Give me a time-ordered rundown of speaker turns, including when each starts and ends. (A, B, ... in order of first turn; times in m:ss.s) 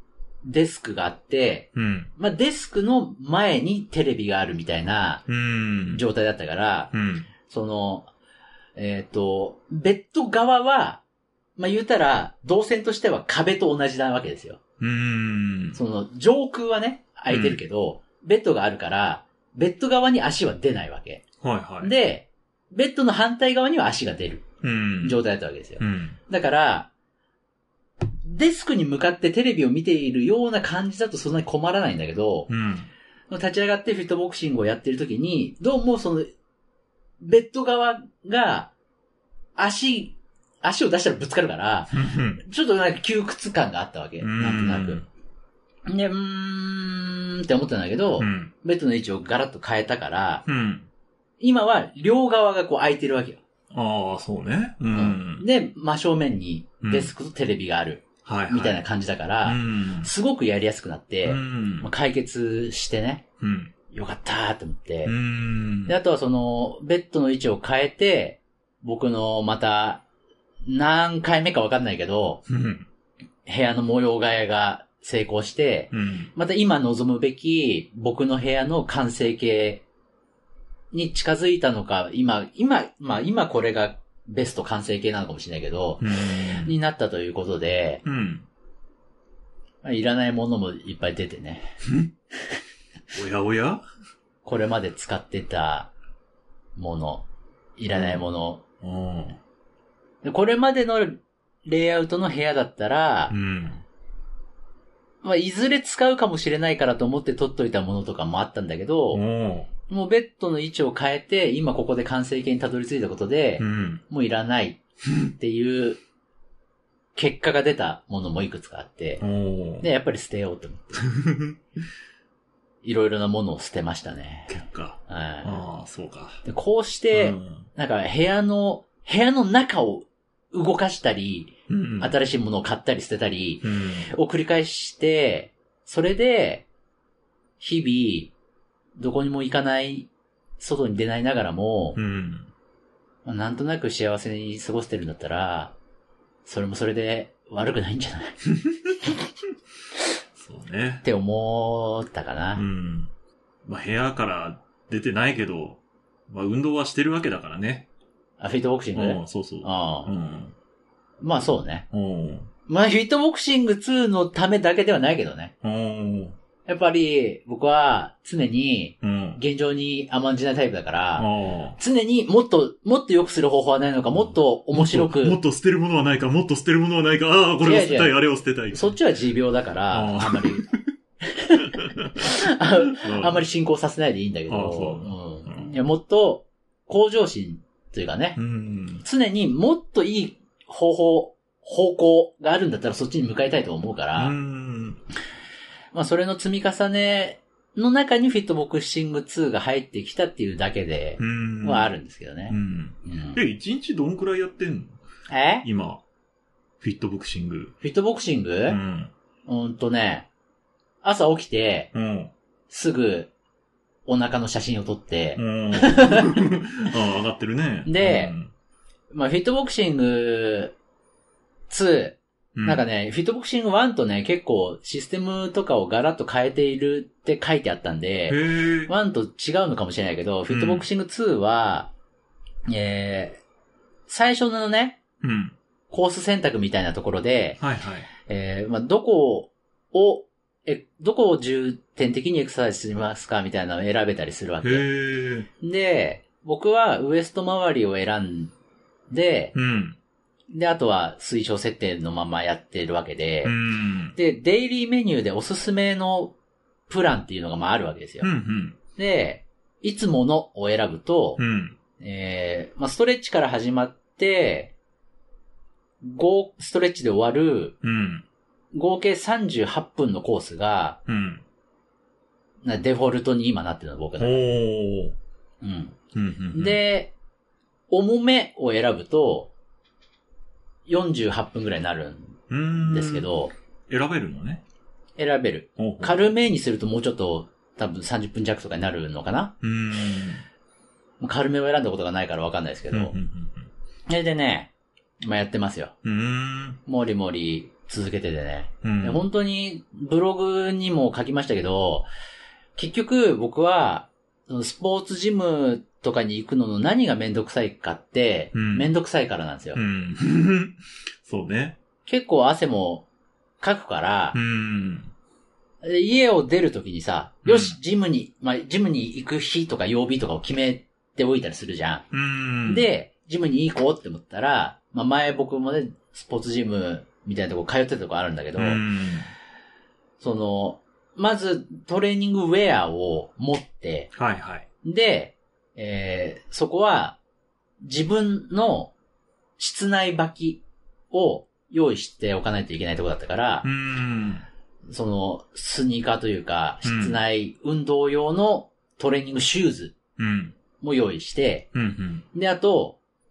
0:00.4-0:05.2 A
0:01.7-0:02.1 B
0:05.3-0:06.0 B
0:05.9-0:06.9 A
0:06.9-0:07.3 B
0:07.4-0:08.1 A
0:08.8-0:11.0 A
0:11.6-0:14.6 A
0:14.8-0:15.8 B
0:15.7-0:21.2 A
0:17.3-0:17.6 B
0:21.4-0:21.9 B
0:21.8-0:24.4 A
0:24.6-0:25.2 B
0:25.0-0:26.9 A
0:25.8-0:26.2 B
0:28.2-0:32.5 A
0:32.5-0:32.9 B
0:33.3-0:36.3 A
0:37.2-0:38.7 A
0:39.6-0:45.0 A
0:41.9-0:42.4 B
0:44.2-0:45.0 B
0:45.9-0:50.4 A
0:48.2-0:48.5 B
0:50.4-0:50.9 B
0:51.4-0:53.4 A
0:53.7-0:55.4 B
0:54.9-1:03.2 A
0:56.8-0:57.1 B
0:58.2-0:58.8 B
0:59.4-1:00.1 B
1:01.2-1:01.9 B
1:03.4-1:03.7 B
1:03.9-1:05.1 A
1:05.0-1:06.0 B
1:05.9-1:10.0 A
1:10.6-1:12.4 A
1:12.5-1:12.9 B
1:13.4-1:19.8 A
1:15.9-1:16.3 B
1:20.9-1:28.0 A
1:26.0-1:26.7 B
1:28.0-1:28.4 B
1:29.8-1:31.7 A
1:33.1-1:33.8 B
1:34.4-1:35.9 A
1:36.8-1:37.2 A
1:37.8-1:38.6 A
1:37.9-1:38.3 B
1:38.8-1:39.4 B
1:40.2-1:43.3 A
1:43.3-1:43.8 B
1:45.2-1:49.2 A
1:49.1-1:49.7 B
1:49.9-1:54.8 A
1:53.6-1:54.0 B
1:55.4-1:56.0 A
1:57.2-1:59.2 A
1:59.2-1:59.9 B
1:59.8-2:01.0 A
2:01.0-2:01.6 B
2:02.8-2:04.5 A
2:04.5-2:06.4 B
2:05.1-2:05.6 A
2:06.4-2:16.6 A
2:07.1-2:07.7 B
2:11.7-2:12.1 B
2:13.6-2:14.1 B
2:17.6-2:18.3 A
2:19.0-2:22.0 A
2:21.9-2:22.5 B
2:23.2-2:25.7 A
2:26.4-2:28.4 A
2:28.6-2:29.0 B
2:30.4-2:31.0 B
2:31.0-2:32.6 A
2:32.6-2:33.1 B
2:33.6-2:37.8 B
2:38.4-2:40.1 A
2:38.9-2:40.5 B
2:41.2-2:41.8 A
2:41.9-2:42.5 B
2:42.7-2:45.5 A
2:45.6-2:46.4 B
2:46.6-2:55.4 A
2:49.0-2:49.4 B
2:51.2-2:51.8 B
2:54.2-2:58.9 B
2:57.6-2:58.2 A
2:58.7-3:00.6 A
2:59.9-3:00.8 B
3:01.2-3:08.4 A
3:01.6-3:02.3 B
3:02.9-3:03.4 B
3:04.5-3:05.8 B
3:08.4-3:09.0 B
3:09.0-3:14.3 A
3:14.1-3:15.0 B
3:15.9-3:23.4 A
3:21.2-3:21.9 B
3:22.5-3:25.0 B
3:25.3-3:25.7 A
3:25.6-3:26.0 B
3:26.8-3:27.7 B
3:27.8-3:28.8 A
3:28.7-3:29.1 B
3:29.4-3:30.3 A
3:31.0-3:31.9 A
3:31.9-3:32.3 B
3:32.7-3:33.3 A
3:34.0-3:36.4 A
3:35.4-3:38.5 B
3:37.8-3:38.3 A
3:39.1-3:40.7 A
3:41.7-3:51.9 A
3:42.5-3:42.8 B
3:48.3-3:48.9 B
3:50.5-3:50.8 B
3:52.7-3:53.4 A
3:54.1-3:55.0 A
3:55.2-3:55.5 B
3:55.9-3:57.6 A
3:57.6-3:58.1 B
3:58.2-4:04.8 A
4:04.6-4:05.5 B
4:05.6-4:08.5 A
4:09.1-4:09.5 A
4:09.5-4:10.0 B
4:10.5-4:13.5 A
4:13.4-4:14.2 B
4:14.2-4:16.3 A
4:16.9-4:18.3 A
4:18.2-4:18.8 B
4:19.0-4:21.4 A
4:21.4-4:21.8 B
4:22.0-4:24.7 A
4:26.0-4:27.8 A
4:27.8-4:28.2 B
4:28.7-4:31.0 A
4:31.1-4:31.4 B
4:32.6-4:34.5 A
4:34.2-4:35.2 B
4:35.6-4:36.0 A
4:36.1-4:36.8 B
4:36.5-4:37.1 A
4:37.9-4:39.5 A
4:40.8-4:43.5 A
4:42.5-4:43.3 B
4:43.9-4:44.6 B
4:45.2-4:49.5 A
4:45.8-4:46.2 B
4:49.6-4:50.4 B
4:51.2-4:53.1 A
4:52.9-4:53.7 B
4:54.1-4:54.7 A
4:55.2-4:55.9 A
4:56.0-4:56.8 B
4:56.9-5:02.1 A
4:58.8-4:59.2 B
5:02.8-5:09.8 A
5:08.5-5:08.9 B
5:09.7-5:11.8 B
5:12.0-5:13.0 A
5:13.6-5:14.4 A
5:14.3-5:15.1 B
5:15.8-5:22.0 A
5:17.4-5:17.8 B
5:22.1-5:22.9 B
5:22.7-5:28.8 A
5:28.6-5:29.3 B
5:30.2-5:34.1 A
5:34.2-5:34.6 B
5:34.8-5:37.2 A
5:37.8-5:38.9 A
5:39.6-5:43.6 A
5:43.6-5:44.4 B
5:44.9-5:49.9 A
5:46.8-5:47.2 B
5:50.2-5:50.6 B
5:50.8-5:51.7 A
5:51.7-5:52.2 B
5:52.3-5:53.0 A